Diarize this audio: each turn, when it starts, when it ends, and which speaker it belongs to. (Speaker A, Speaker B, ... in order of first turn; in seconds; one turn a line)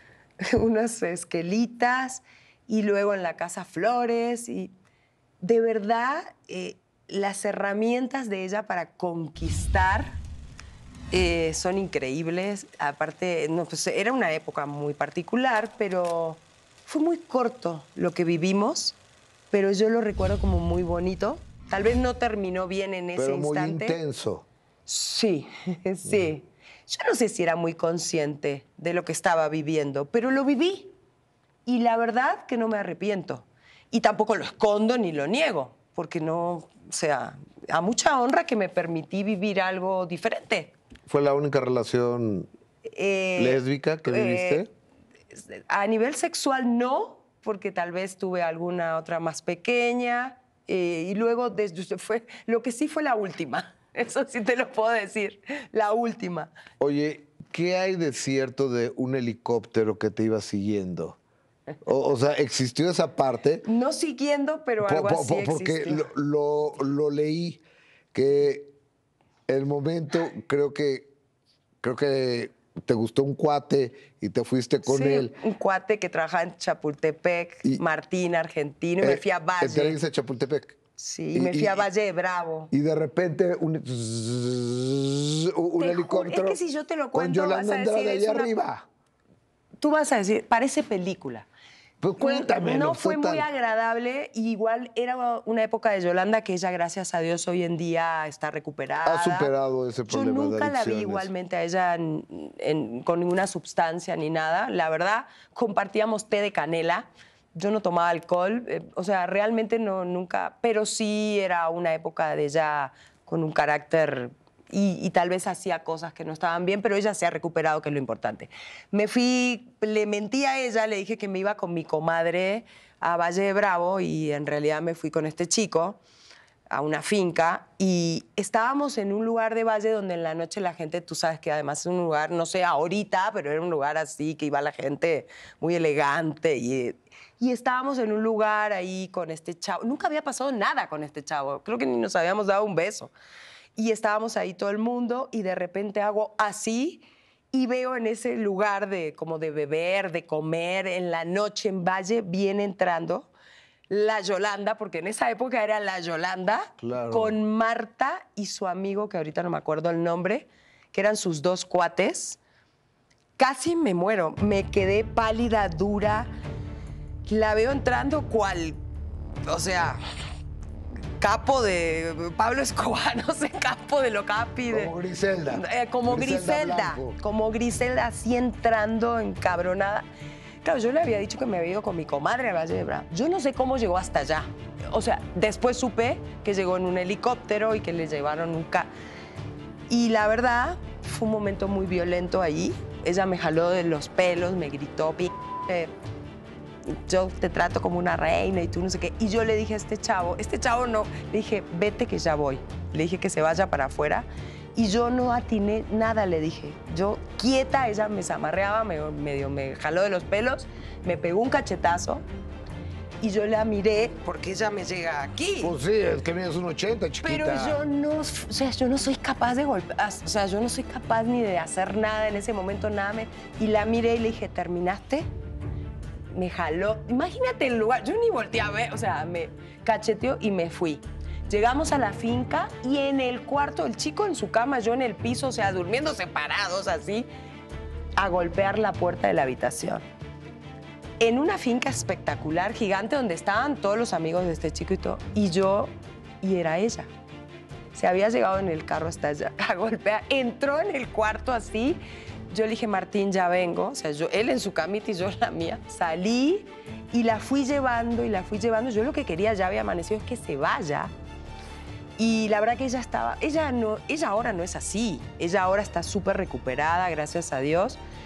Speaker A: 0.4-4.7
Speaker A: 5.4-10.2
Speaker A: 11.1-19.0
Speaker A: 19.5-24.0
Speaker B: 23.1-24.5
Speaker A: 24.9-30.9
Speaker B: 26.1-26.3
Speaker A: 31.7-40.7
Speaker B: 41.1-42.5
Speaker A: 42.9-44.6
Speaker B: 43.4-44.7
Speaker A: 45.4-56.5
Speaker B: 56.8-61.2
Speaker B: 61.8-63.6
Speaker A: 63.6-66.1
Speaker B: 64.8-67.6
Speaker B: 68.1-68.7
Speaker B: 69.5-71.1
Speaker B: 71.8-75.3
Speaker A: 74.8-80.0
Speaker B: 79.0-80.8
Speaker A: 81.0-82.7
Speaker B: 81.3-81.9
Speaker B: 82.7-86.6
Speaker A: 85.8-88.5
Speaker B: 87.1-88.8
Speaker A: 89.8-91.5
Speaker B: 92.0-93.5
Speaker A: 92.2-99.5
Speaker B: 99.0-101.3
Speaker A: 100.1-126.0
Speaker A: 126.7-143.1
Speaker A: 143.8-153.3
Speaker A: 153.9-162.4
Speaker B: 156.8-157.4
Speaker A: 163.4-166.3
Speaker A: 167.3-168.8
Speaker A: 169.5-170.0
Speaker A: 171.2-174.9
Speaker B: 174.7-177.2
Speaker A: 175.5-180.1
Speaker A: 180.6-188.9
Speaker A: 189.9-195.9
Speaker A: 197.0-212.2
Speaker A: 213.2-215.7
Speaker B: 215.6-217.8
Speaker A: 217.2-225.3
Speaker A: 226.3-237.3
Speaker A: 238.2-240.0
Speaker A: 241.2-247.1
Speaker A: 247.9-261.1
Speaker A: 262.2-268.0